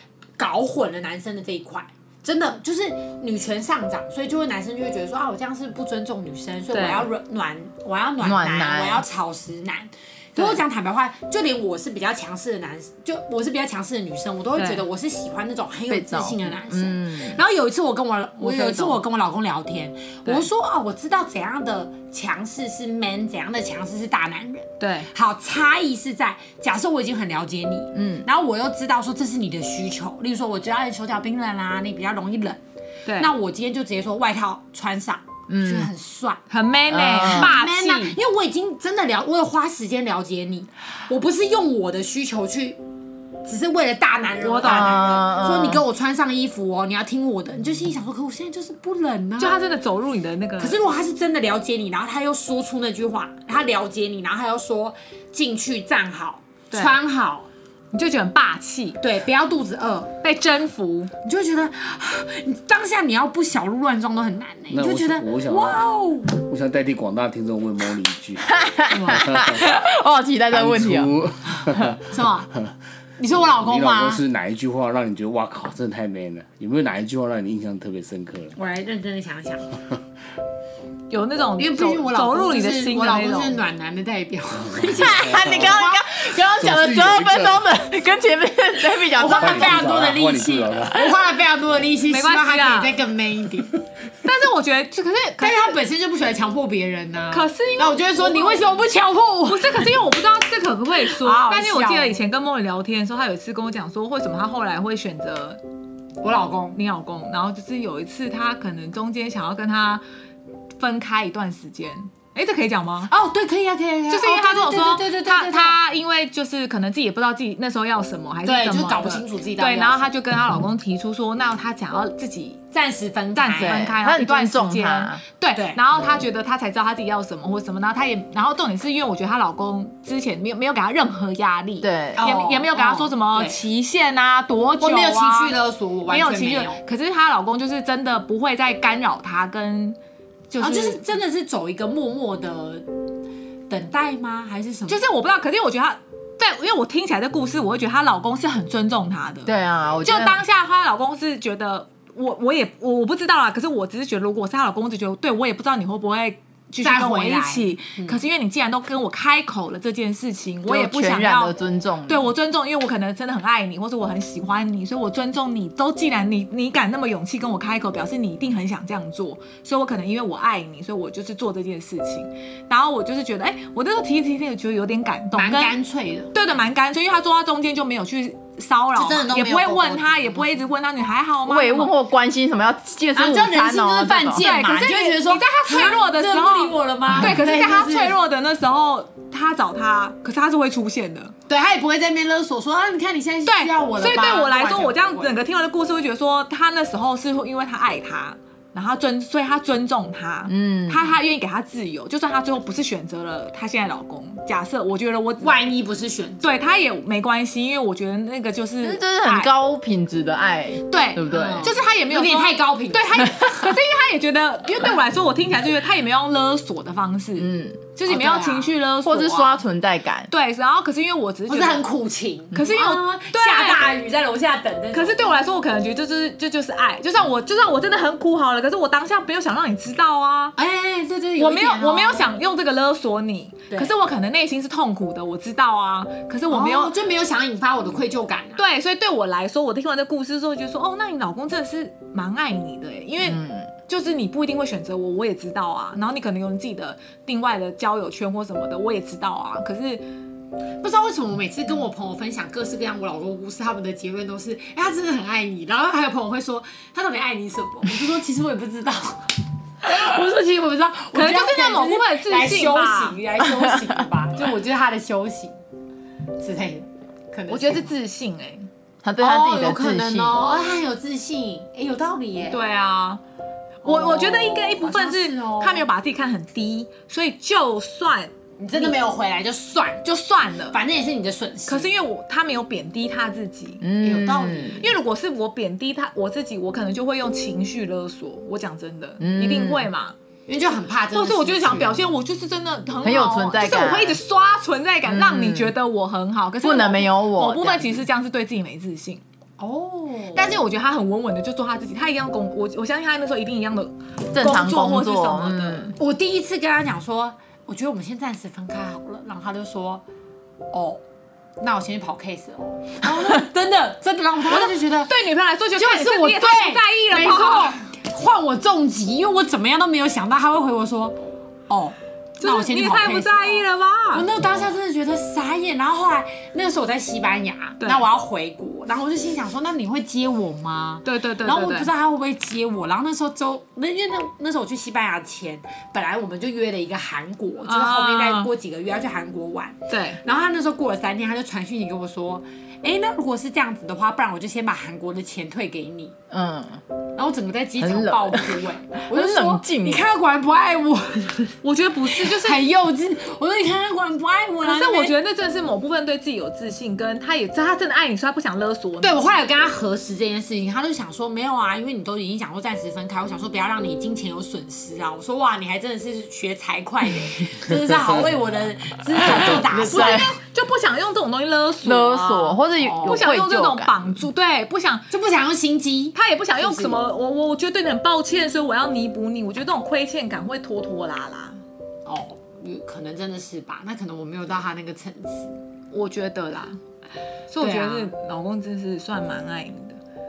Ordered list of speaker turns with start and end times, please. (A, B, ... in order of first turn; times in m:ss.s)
0:00.4-0:32.6 A
0:06.7-0:07.1 B
0:08.2-0:09.0 C
0:10.4-0:10.6 B
0:14.5-0:14.8 B
0:15.9-0:17.4 C
0:18.4-0:19.0 B
0:24.8-0:25.1 B
0:27.9-0:28.2 C
0:33.0-0:33.3 B
0:33.2-0:36.4 A
0:35.5-0:35.9 C
0:36.5-0:38.2 B
0:36.9-0:37.5 C
0:37.2-0:42.8 A
0:43.4-0:49.6 A
0:44.4-0:45.0 B
0:44.6-0:45.8 C
0:49.4-0:50.8 B
0:50.6-0:57.5 A
0:56.7-0:57.0 B
0:57.9-0:59.0 B
0:59.0-1:00.1 A
1:00.2-1:01.1 B
1:01.2-1:06.4 A
1:04.7-1:09.6 D
1:08.4-1:11.1 C
1:10.5-1:12.1 D
1:11.7-1:11.9 C
1:12.1-1:12.5 A
1:13.2-1:14.2 A
1:13.6-1:18.5 D
1:18.6-1:19.7 A
1:21.1-1:23.6 B
1:21.6-1:26.0 A
1:24.7-1:25.7 D
1:25.0-1:29.9 C
1:26.5-1:27.7 D
1:29.1-1:33.8 A
1:29.3-1:31.1 D
1:32.1-1:32.9 B
1:34.2-1:35.8 B
1:35.4-1:39.9 A
1:37.3-1:38.8 B
1:39.5-1:45.6 B
1:41.0-1:42.2 A
1:46.2-1:46.8 A
1:46.7-1:50.0 B
1:50.8-1:53.1 B
1:53.1-1:55.8 A
1:54.1-2:02.6 B
1:58.4-2:00.1 A
2:02.7-2:03.8 A
2:03.3-2:15.5 B
2:03.6-2:05.2 C
2:05.5-2:05.8 A
2:11.8-2:12.3 C
2:12.2-2:13.6 A
2:14.8-2:16.8 A
2:16.1-2:20.0 B
2:20.5-2:21.0 B
2:20.6-2:22.9 A
2:23.7-2:25.0 A
2:24.9-2:41.5 B
2:29.4-2:30.4 C
2:36.8-2:38.2 A
2:40.6-2:42.3 C
2:42.1-2:55.7 B
2:55.3-2:56.3 A
2:56.3-3:01.9 B
2:58.9-3:00.6 A
3:01.4-3:04.4 C
3:03.1-3:08.2 A
3:04.4-3:11.3 B
3:11.5-3:15.4 A
3:13.4-3:25.6 B
3:20.5-3:21.1 C
3:25.4-3:26.4 A
3:26.4-3:29.5 B
3:28.8-3:31.7 C
3:30.9-3:39.6 B
3:31.3-3:33.4 A
3:37.4-3:37.8 C
3:38.1-3:38.7 A
3:39.0-3:40.3 C
3:40.3-3:41.9 B
3:41.5-3:45.2 A
3:42.5-3:43.8 B
3:44.9-3:50.5 B
3:50.6-3:52.3 A
3:51.4-3:56.9 B
3:56.5-3:58.6 A
3:58.6-4:10.0 B
4:03.2-4:03.7 C
4:10.8-4:25.6 A
4:21.1-4:23.2 B
4:26.4-4:27.9 A
4:27.5-4:28.7 B
4:29.0-4:30.4 C
4:29.2-4:32.6 A
4:32.4-4:33.2 B
4:33.8-4:35.9 A
4:33.8-4:39.0 B
4:38.6-4:40.1 A
4:40.0-4:40.8 B
4:40.7-4:41.9 A
4:41.7-4:43.8 B
4:43.8-4:44.8 C
4:44.0-4:44.8 A
4:44.8-4:50.2 B
4:49.2-4:49.9 C
4:50.5-4:52.0 A
4:51.1-4:59.2 B
4:53.0-4:54.2 C
4:55.0-4:55.7 C
4:56.6-4:58.0 C
4:59.6-5:00.5 A
5:00.3-5:05.9 B
5:04.3-5:05.9 C
5:06.0-5:10.0 A
5:10.7-5:11.0 A
5:11.6-5:15.2 A
5:14.5-5:17.8 B
5:15.8-5:46.2 A
5:22.4-5:24.3 B
5:27.8-5:28.0 B
5:31.0-5:31.9 B
5:37.6-5:38.5 B
5:39.9-5:40.2 B
5:46.3-5:46.8 C
5:47.2-5:55.1 A
5:47.8-5:50.0 C
5:51.6-5:52.6 B
5:54.6-5:59.2 B
5:59.0-6:10.3 A
6:09.3-6:10.3 C
6:09.8-6:15.0 B
6:11.8-6:14.0 C
6:12.8-6:13.2 A
6:15.1-6:17.0 A
6:16.1-6:21.6 B
6:22.0-6:25.6 A
6:25.9-6:26.8 B
6:27.5-6:30.0 B
6:27.6-6:28.1 A